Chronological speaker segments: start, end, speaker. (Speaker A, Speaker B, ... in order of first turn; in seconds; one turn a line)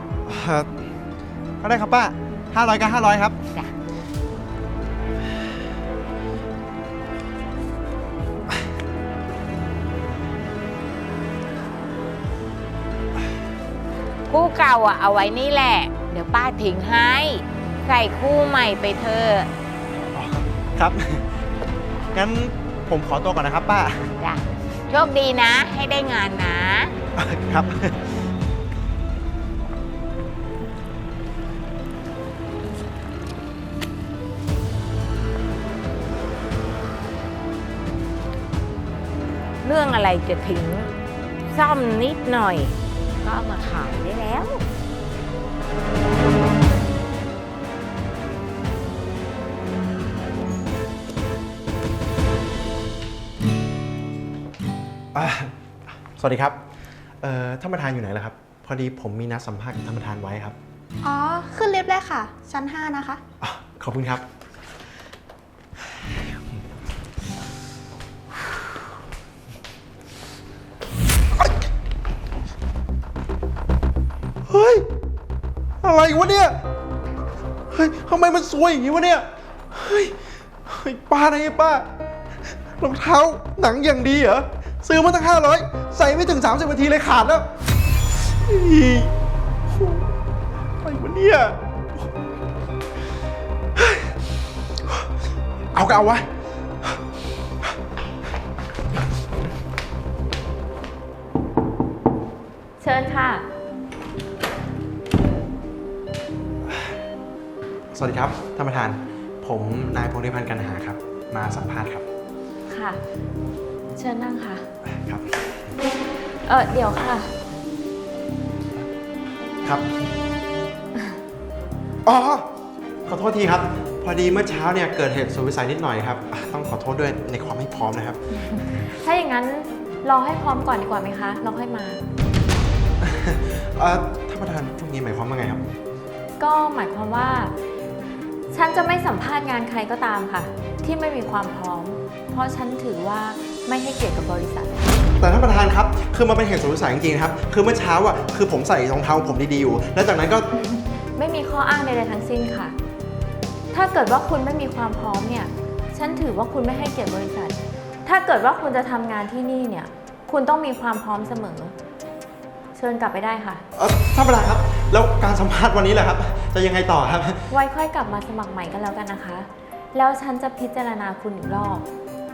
Speaker A: 0.3-0.7
Speaker A: 1.6-3.4
Speaker B: 14.3-19.5
Speaker A: 20.1-21.2
Speaker A: 22.1-24.1
Speaker B: 24.2-27.0
Speaker A: 27.2-28.0
Speaker B: 39.6-40.9
Speaker B: 41.5-44.6
Speaker A: 55.1-55.5
Speaker A: 56.2-56.6
Speaker A: 57.2-60.6
Speaker C: 61.0-63.2
Speaker A: 63.4-64.2
Speaker A: 74.5-74.9
Speaker A: 75.8-76.6
Speaker A: 77.7-81.9
Speaker A: 82.8-87.5
Speaker A: 88.2-89.2
Speaker A: 89.7-90.1
Speaker A: 90.8-91.6
Speaker A: 93.8-94.1
Speaker A: 95.7-96.3
Speaker D: 102.8-103.5
Speaker A: 107.9-112.0
Speaker D: 112.7-113.0
Speaker D: 114.0-114.7
Speaker A: 114.9-115.3
Speaker D: 116.5-117.3
Speaker A: 122.0-122.5
Speaker A: 123.1-128.2
Speaker D: 128.5-132.0
Speaker A: 133.0-135.7
Speaker D: 136.4-137.5
Speaker D: 138.5-144.9
Speaker A: 145.2-150.4
Speaker D: 150.6-152.8
Speaker D: 153.7-161.8
Speaker D: 162.8-163.6
Speaker A: 163.8-167.4
Speaker D: 167.5-171.9